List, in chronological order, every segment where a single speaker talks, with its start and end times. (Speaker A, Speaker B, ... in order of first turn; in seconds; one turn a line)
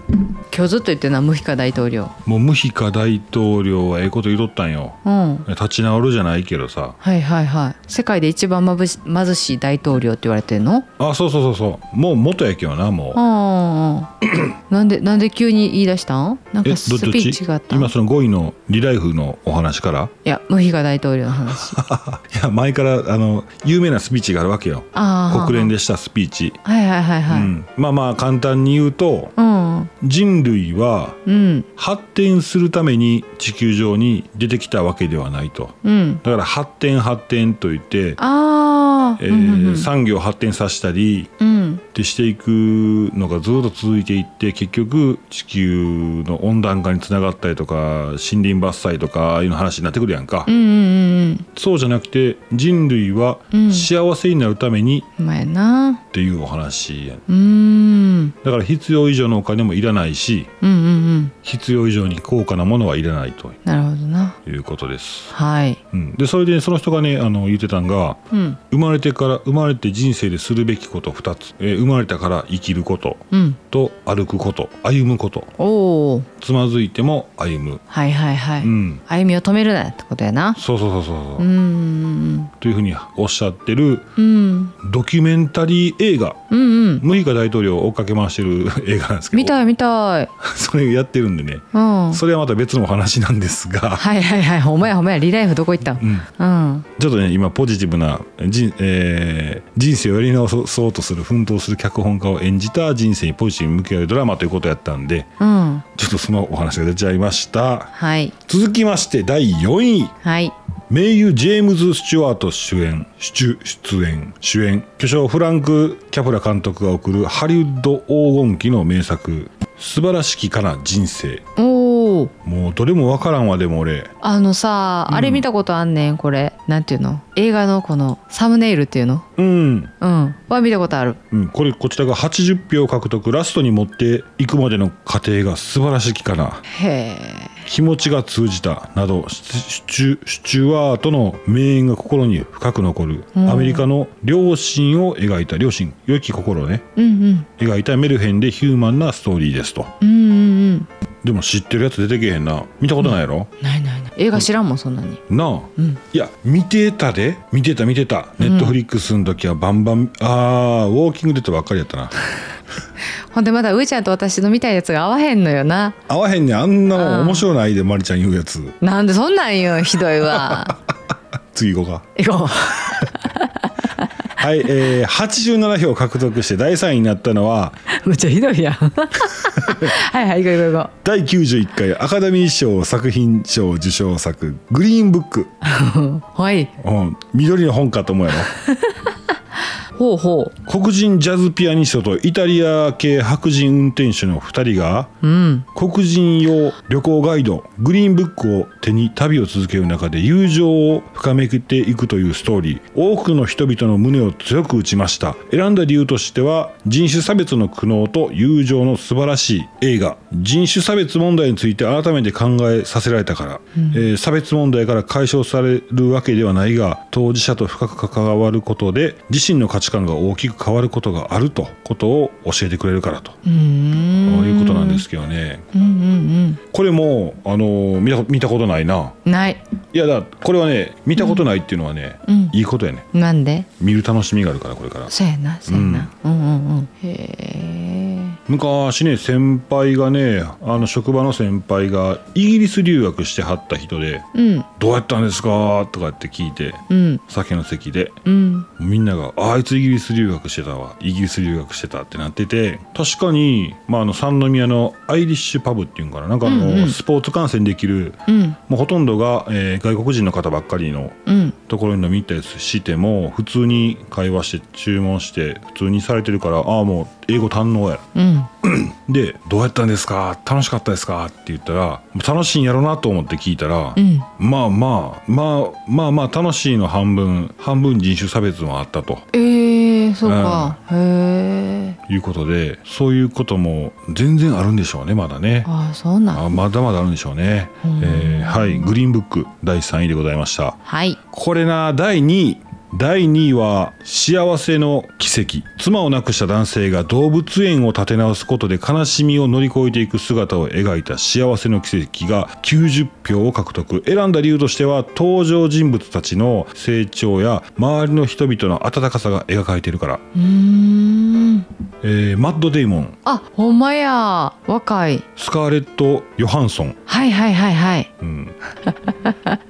Speaker A: 0.4-2.1
Speaker B: 2.2-7.0
Speaker A: 5.0-5.5
Speaker A: 7.0-10.9
Speaker B: 11.0-13.2
Speaker A: 13.1-14.1
Speaker A: 14.7-17.9
Speaker B: 16.6-20.1
Speaker A: 20.2-21.8
Speaker B: 21.5-26.6
Speaker A: 24.9-25.7
Speaker A: 26.6-27.5
Speaker B: 27.3-29.3
Speaker A: 29.4-29.9
Speaker B: 30.0-31.2
Speaker A: 31.2-31.7
Speaker B: 31.8-38.2
Speaker A: 35.8-36.2
Speaker A: 38.2-39.9
Speaker B: 39.2-41.3
Speaker A: 41.4-41.8
Speaker B: 41.9-50.5
Speaker A: 50.5-51.5
Speaker B: 51.5-55.1
Speaker A: 53.5-53.9
Speaker A: 55.2-56.0
Speaker B: 56.1-57.2
Speaker A: 57.3-58.4
Speaker B: 58.4-60.5
Speaker A: 60.6-61.3
Speaker B: 61.4-63.6
Speaker A: 63.6-64.4
Speaker B: 64.5-65.3
Speaker A: 65.3-65.8
Speaker B: 65.9-75.5
Speaker A: 68.3-68.6
Speaker A: 73.3-73.6
Speaker A: 75.6-76.3
Speaker B: 76.4-77.8
Speaker A: 77.9-80.6
Speaker B: 78.6-79.0
Speaker B: 80.6-81.5
Speaker A: 81.4-82.5
Speaker B: 82.6-84.1
Speaker A: 84.2-84.8
Speaker B: 84.8-86.4
Speaker A: 86.5-87.0
Speaker B: 87.0-89.5
Speaker A: 89.3-90.3
Speaker B: 90.4-94.0
Speaker A: 91.7-92.2
Speaker A: 94.0-96.9
Speaker B: 96.0-96.3
Speaker B: 97.0-105.3
Speaker A: 105.4-105.8
Speaker B: 105.9-110.1
Speaker A: 107.9-108.3
Speaker A: 110.2-110.5
Speaker B: 110.9-121.4
Speaker A: 121.5-122.3
Speaker B: 122.4-124.1
Speaker A: 124.2-129.3
Speaker B: 125.1-125.5
Speaker B: 129.4-129.9
Speaker A: 130.0-131.2
Speaker B: 131.3-136.6
Speaker A: 136.7-137.6
Speaker B: 137.7-146.8
Speaker A: 143.3-143.8
Speaker A: 146.9-147.5
Speaker B: 147.6-149.9
Speaker A: 150.0-150.9
Speaker B: 151.2-153.5
Speaker A: 153.6-155.2
Speaker B: 155.3-162.1
Speaker A: 158.4-158.8
Speaker A: 163.3-166.0
Speaker B: 166.1-168.8
Speaker A: 166.9-167.5
Speaker A: 168.8-170.8
Speaker B: 170.3-170.7
Speaker B: 171.5-172.1
Speaker A: 172.2-174.1
Speaker B: 174.3-177.8
Speaker A: 177.9-180.9
Speaker B: 179.6-179.9
Speaker B: 181.0-185.5
Speaker A: 185.6-186.7
Speaker B: 186.8-188.5
Speaker A: 188.6-189.1
Speaker A: 189.9-190.6
Speaker B: 190.6-195.1
Speaker A: 195.2-195.7
Speaker B: 195.7-223.4
Speaker A: 213.7-214.0
Speaker A: 223.4-225.0
Speaker B: 224.2-225.7
Speaker A: 225.7-226.6
Speaker B: 226.7-229.2
Speaker A: 229.2-229.6
Speaker B: 229.9-233.1
Speaker A: 231.2-231.4
Speaker A: 232.2-232.5
Speaker A: 233.1-233.7
Speaker B: 233.8-235.1
Speaker A: 235.1-238.4
Speaker B: 235.7-236.1
Speaker B: 238.5-244.2
Speaker A: 244.3-244.7
Speaker B: 244.8-248.2
Speaker A: 246.9-247.2
Speaker A: 248.2-248.7
Speaker B: 248.8-268.0
Speaker A: 256.4-257.0
Speaker A: 258.3-258.6
Speaker A: 261.3-261.6
Speaker A: 268.1-268.5
Speaker B: 268.6-279.2
Speaker A: 273.9-274.3
Speaker A: 279.3-282.0
Speaker B: 280.2-280.8
Speaker B: 282.1-285.7
Speaker A: 285.6-286.6
Speaker B: 286.3-290.8
Speaker A: 287.8-288.9
Speaker A: 290.9-291.2
Speaker B: 291.3-310.2
Speaker A: 310.3-311.7
Speaker B: 312.0-313.2
Speaker A: 313.2-315.3
Speaker B: 315.4-317.0
Speaker A: 317.1-318.1
Speaker B: 318.2-318.5
Speaker A: 318.9-319.6